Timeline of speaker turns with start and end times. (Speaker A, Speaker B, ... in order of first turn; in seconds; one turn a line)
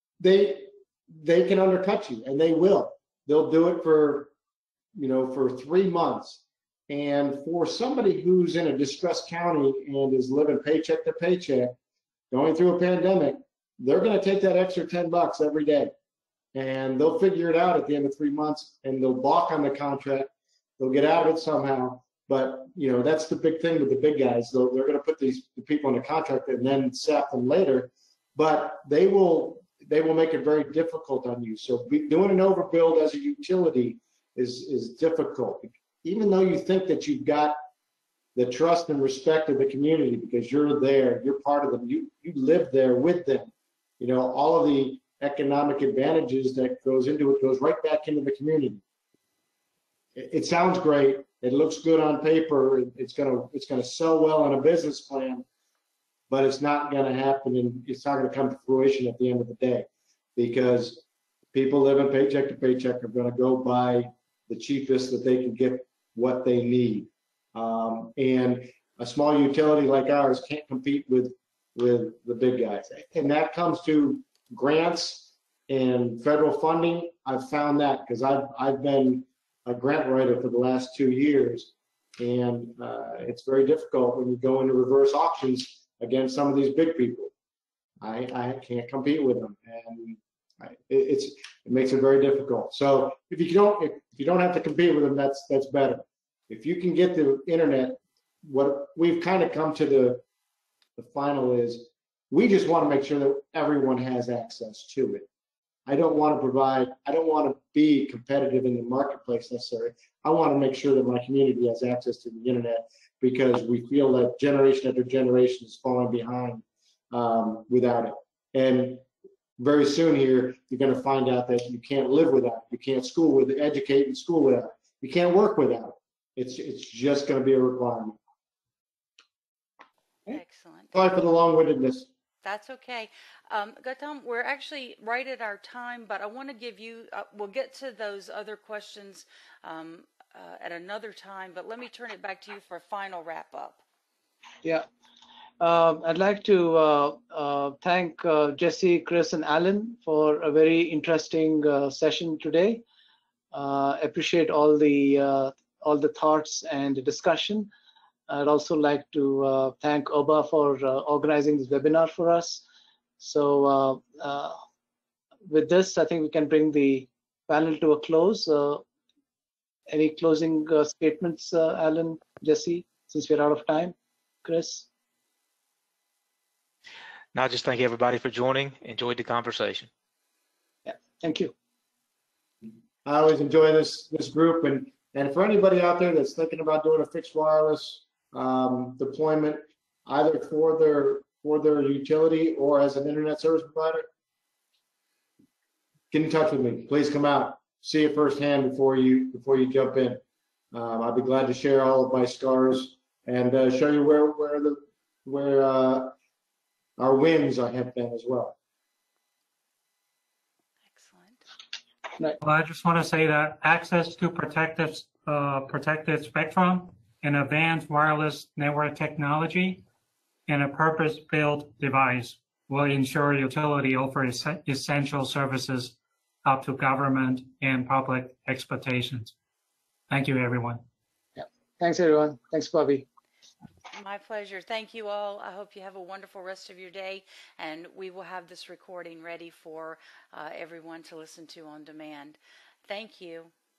Speaker A: 0.2-4.3
Speaker A: 5.0-11.8
Speaker A: 12.3-15.9
Speaker A: 16.5-37.6
Speaker A: 38.4-48.8
Speaker A: 50.2-55.5
Speaker A: 56.3-87.3
Speaker A: 88.0-100.2
Speaker A: 101.0-105.3
Speaker A: 105.9-119.0
Speaker A: 119.6-128.2
Speaker B: 130.3-130.9
Speaker A: 130.9-132.1
Speaker B: 132.4-143.8
Speaker C: 145.6-152.8
Speaker C: 153.5-157.7
Speaker C: 158.3-162.7
Speaker C: 163.2-164.6
Speaker C: 165.5-168.8
Speaker C: 169.9-174.9
Speaker D: 177.3-179.9
Speaker C: 180.8-181.5
Speaker A: 183.1-194.1
Speaker A: 196.1-200.2
Speaker A: 200.7-206.1
Speaker A: 207.0-208.6
Speaker B: 210.9-211.4
Speaker E: 212.4-219.8
Speaker E: 220.5-229.3
Speaker E: 230.1-230.8
Speaker C: 231.4-233.1
Speaker B: 233.9-243.5